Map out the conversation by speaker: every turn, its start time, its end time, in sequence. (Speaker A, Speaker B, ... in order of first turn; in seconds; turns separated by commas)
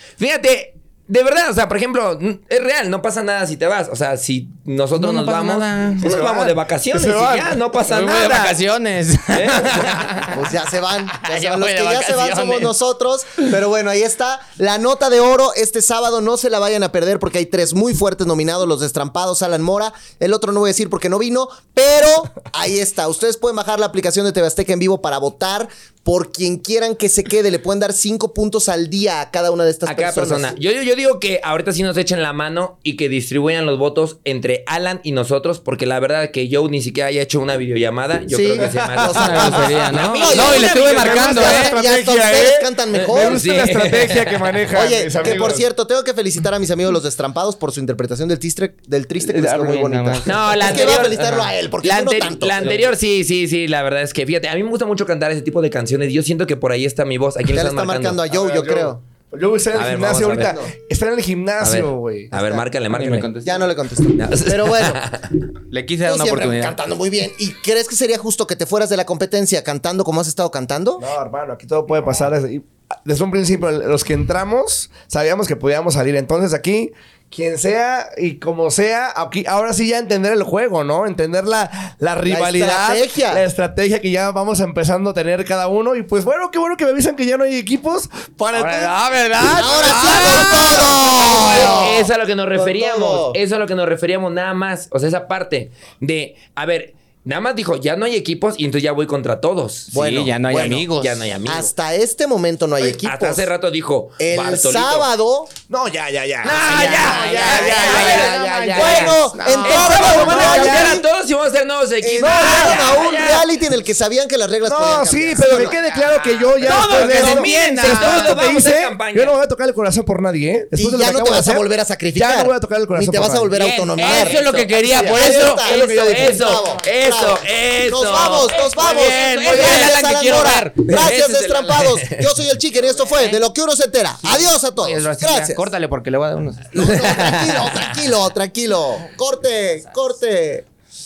Speaker A: 0.2-8.6, Speaker B: 4.9-6.2, Speaker C: 6.0-7.5, Speaker B: 7.8-10.5, Speaker A: 9.3-10.0, Speaker D: 10.3-30.5, Speaker B: 11.2-12.7, Speaker A: 29.9-41.5, Speaker D: 38.3-43.4, Speaker C: 38.6-39.1, Speaker B: 39.1-41.8, Speaker C: 40.3-45.6, Speaker A: 43.1-44.5, Speaker D: 44.7-52.9, Speaker B: 49.3-51.1, Speaker A: 50.2-58.2, Speaker D: 57.5-59.0, Speaker C: 58.3-62.3, Speaker A: 59.7-60.6, Speaker D: 60.3-60.7, Speaker A: 61.6-63.3, Speaker D: 62.3-62.6, Speaker B: 62.9-63.7, Speaker D: 63.4-65.0, Speaker A: 64.2-65.5, Speaker B: 65.7-66.8, Speaker D: 66.0-71.0, Speaker C: 71.0-90.3, Speaker D: 82.2-83.4, Speaker B: 88.5-92.0, Speaker D: 89.6-93.4, Speaker A: 90.0-99.9, Speaker B: 99.9-101.2, Speaker D: 99.9-100.9, Speaker A: 100.9-101.7, Speaker D: 101.4-103.5, Speaker A: 102.9-105.1, Speaker D: 104.2-105.5, Speaker C: 105.7-109.2, Speaker A: 106.4-113.5, Speaker B: 106.5-111.0, Speaker D: 107.5-111.0, Speaker C: 109.8-111.0, Speaker D: 112.0-115.8, Speaker C: 112.2-112.8, Speaker C: 114.7-121.6, Speaker B: 115.8-118.5, Speaker A: 116.6-119.3, Speaker D: 120.7-124.4, Speaker C: 122.1-123.5, Speaker B: 123.5-126.3, Speaker A: 123.9-132.3, Speaker C: 124.8-125.1, Speaker D: 125.0-135.7, Speaker B: 128.6-130.8, Speaker B: 132.8-133.4, Speaker B: 134.2-136.8, Speaker D: 136.7-140.7, Speaker A: 136.8-137.8